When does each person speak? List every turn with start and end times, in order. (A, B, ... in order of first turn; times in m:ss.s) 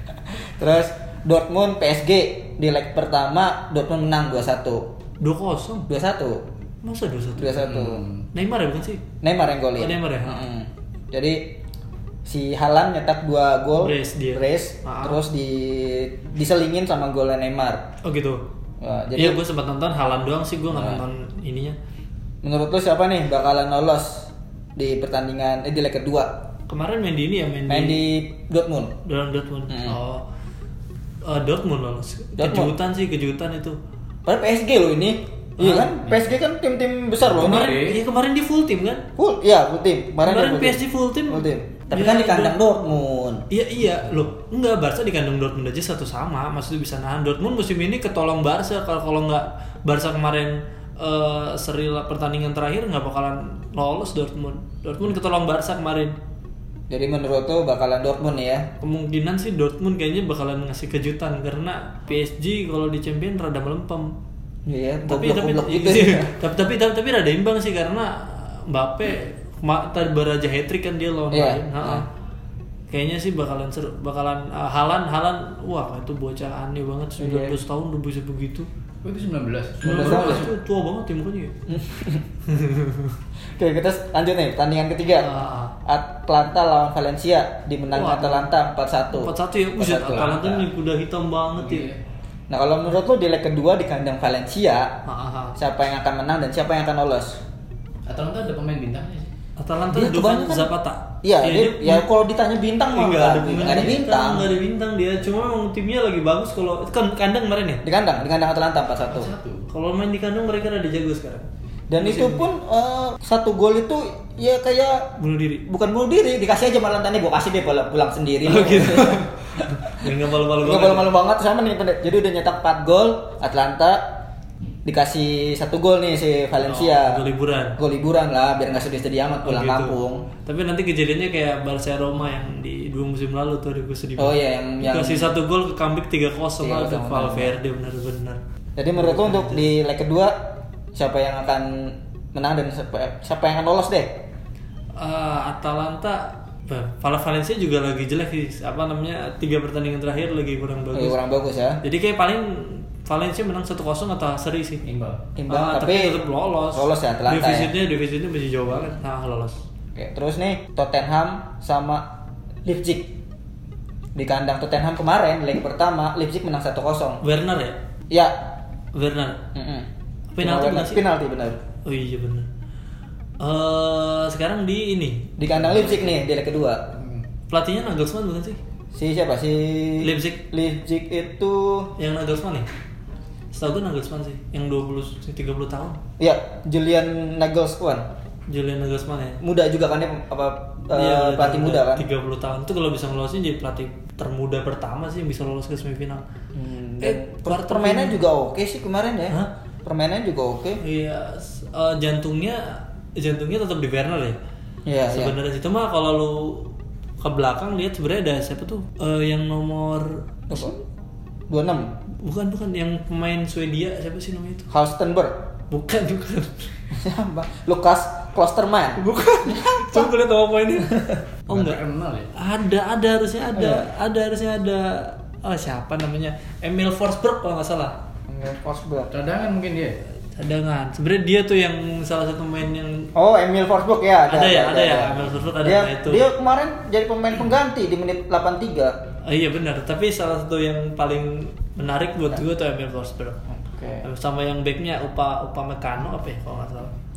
0:00.3-0:04.9 A
0:05.2-0:05.9 B
0:05.9-0:06.4 A
0:06.8-0:07.7 B
0:07.4-0:08.0 A
0:07.6-0:08.3 C
0:08.3-0:09.0 B
0:09.2-0:11.5 A
0:09.8-0:10.4 B
0:12.2-0:17.8 A
0:13.8-0:15.2 B
0:18.0-0:18.4 B
0:18.8-0:19.4 A
0:19.2-0:21.8 B
0:20.7-0:21.0 A
0:22.4-0:26.4 A
0:26.7-0:28.0 B
0:27.7-0:29.0 A
0:29.0-0:30.2 B
0:29.7-0:30.0 A
0:31.2-0:33.8 B
0:32.4-0:32.7 A
0:34.3-0:37.8 A
0:35.6-0:36.0 B
0:37.4-0:38.0 C
0:37.4-0:39.1 B
0:39.2-0:43.4 A
0:40.2-0:42.6 B
0:43.5-0:56.2 B
0:56.9-0:58.7 A
0:58.8-1:04.2 B
1:04.7-1:06.3 A
1:05.1-1:12.1 B
1:11.3-1:12.0 A
1:12.9-1:18.7 B
1:17.2-1:17.6 A
1:19.0-1:20.5 C
1:19.8-1:21.6 B
1:19.8-1:20.5 A
1:21.7-1:22.2 A
1:22.5-1:23.2 B
1:23.6-1:25.3 A
1:25.2-1:25.8 B
1:25.8-1:30.6 A
1:27.9-1:28.5 B
1:29.1-1:31.9 B
1:30.1-1:30.5 C
1:31.6-1:32.0 C
1:32.5-1:35.0 A
1:35.1-1:35.6 B
1:35.6-1:37.4 A
1:38.1-1:39.3 C
1:39.6-1:42.1 B
1:39.9-1:40.7 A
1:41.2-1:44.5 A
1:42.9-1:47.8 B
1:47.8-1:49.3 A
1:49.1-1:49.7 C
1:49.7-1:52.5 B
1:51.9-1:55.1 A
1:55.2-1:55.7 B
1:55.7-1:59.9 A
1:58.4-2:01.1 B
2:00.6-2:04.1 A
2:04.8-2:07.2 A
2:06.6-2:07.8 B
2:07.8-2:10.2 A
2:09.4-2:18.4 B
2:14.2-2:15.3 A
2:16.6-2:17.5 A
2:18.8-2:20.4 A
2:19.0-2:19.6 B
2:20.9-2:24.2 A
2:25.0-2:31.2 B
2:30.9-2:31.8 A
2:31.8-2:34.8 B
2:34.8-2:35.2 C
2:35.4-2:37.7 A
2:35.5-2:39.6 B
2:40.0-2:42.1 A
2:42.6-2:43.1 A
2:44.2-2:47.2 A
2:47.2-2:47.8 B
2:48.9-2:49.4 B
2:49.5-2:49.9 A
2:50.3-2:51.0 B
2:50.4-2:51.6 A
2:51.8-2:52.5 B
2:53.4-2:55.4 B
2:55.4-2:56.8 A
2:57.0-2:57.2 C
2:57.5-2:58.6 B
2:58.9-3:01.9 A
3:00.0-3:00.4 B
3:02.0-3:02.7 B
3:03.5-3:06.0 B
3:06.2-3:08.0 A
3:08.5-3:09.4 B
3:09.4-3:12.0 A
3:10.9-3:16.2 B
3:16.5-3:20.8 A
3:17.0-3:18.2 B
3:20.8-3:24.4 B
3:24.9-3:25.3 A
3:25.1-3:30.7 B
3:30.5-3:30.8 A
3:31.5-3:31.9 A
3:32.2-3:34.7 B
3:34.7-3:35.4 A
3:35.7-3:36.7 B
3:36.9-3:40.1 A
3:39.0-3:41.8 B
3:41.5-3:42.3 C
3:42.3-3:48.0 B
3:43.6-3:43.9 A
3:48.3-3:49.1 A
3:49.1-3:50.0 C
3:50.4-3:53.1 B
3:53.2-3:59.0 A
3:54.3-3:56.3 B
3:59.2-4:03.4 B
4:03.5-4:04.1 A
4:04.0-4:06.9 B